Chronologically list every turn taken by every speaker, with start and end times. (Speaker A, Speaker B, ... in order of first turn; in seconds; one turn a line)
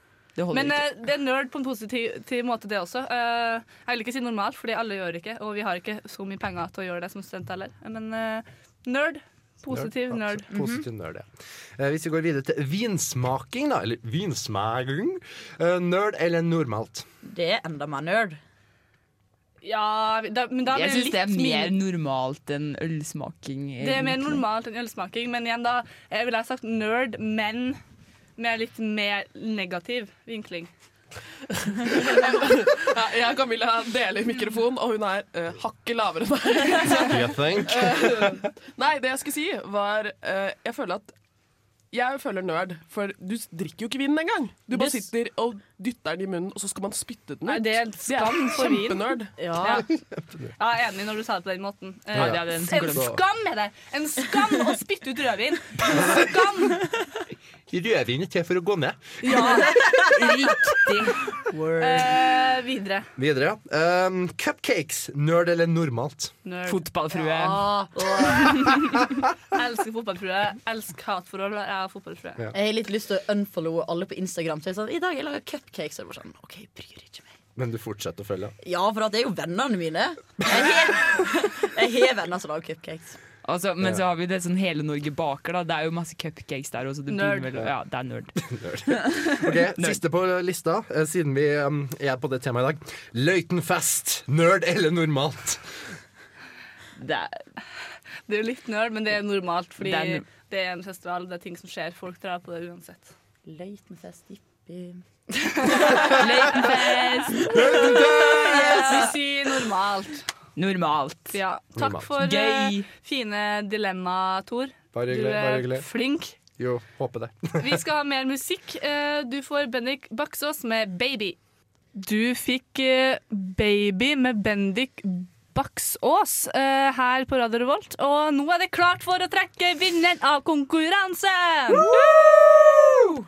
Speaker A: 0.4-0.8
Speaker B: 0.5-10.5
Speaker C: 9.7-11.3
Speaker D: 10.5-10.9
Speaker C: 11.8-17.1
Speaker D: 17.2-18.4
Speaker B: 19.6-21.7
Speaker A: 20.7-24.4
Speaker B: 23.8-27.8
Speaker B: 28.4-30.7
Speaker E: 31.8-37.2
Speaker C: 37.1-38.5
Speaker E: 37.7-41.1
Speaker E: 41.9-47.8
Speaker D: 44.7-45.1
Speaker B: 47.5-49.9
Speaker A: 48.1-48.4
Speaker E: 48.5-49.3
Speaker D: 49.4-49.9
Speaker B: 50.6-56.8
Speaker C: 52.1-53.2
Speaker A: 52.2-53.1
Speaker C: 55.9-56.2
Speaker C: 57.7-59.2
Speaker B: 59.2-59.9
Speaker D: 59.3-60.1
Speaker A: 59.8-61.2
Speaker D: 61.5-62.2
Speaker B: 61.8-63.1
Speaker C: 63.2-66.3
Speaker B: 66.5-66.9
Speaker A: 66.7-67.7
Speaker D: 67.1-68.6
Speaker B: 69.5-72.4
Speaker D: 72.5-77.3
Speaker C: 77.5-78.5
Speaker D: 78.6-83.2
Speaker A: 83.4-88.3
Speaker B: 87.1-87.5
Speaker C: 88.4-95.6
Speaker A: 89.0-90.0
Speaker A: 97.0-97.3
Speaker B: 98.3-103.1
Speaker A: 99.8-100.3
Speaker D: 103.5-105.0
Speaker B: 105.5-107.6
Speaker D: 105.6-105.9
Speaker A: 106.2-108.2
Speaker D: 107.5-109.1
Speaker C: 107.5-108.5
Speaker B: 108.3-110.2
Speaker A: 108.8-109.1
Speaker A: 110.5-111.4
Speaker B: 111.3-116.4
Speaker C: 111.8-112.1
Speaker A: 112.1-112.9
Speaker C: 114.9-115.9
Speaker C: 116.6-117.8
Speaker B: 117.6-121.4
Speaker B: 122.0-131.9
Speaker D: 131.7-133.2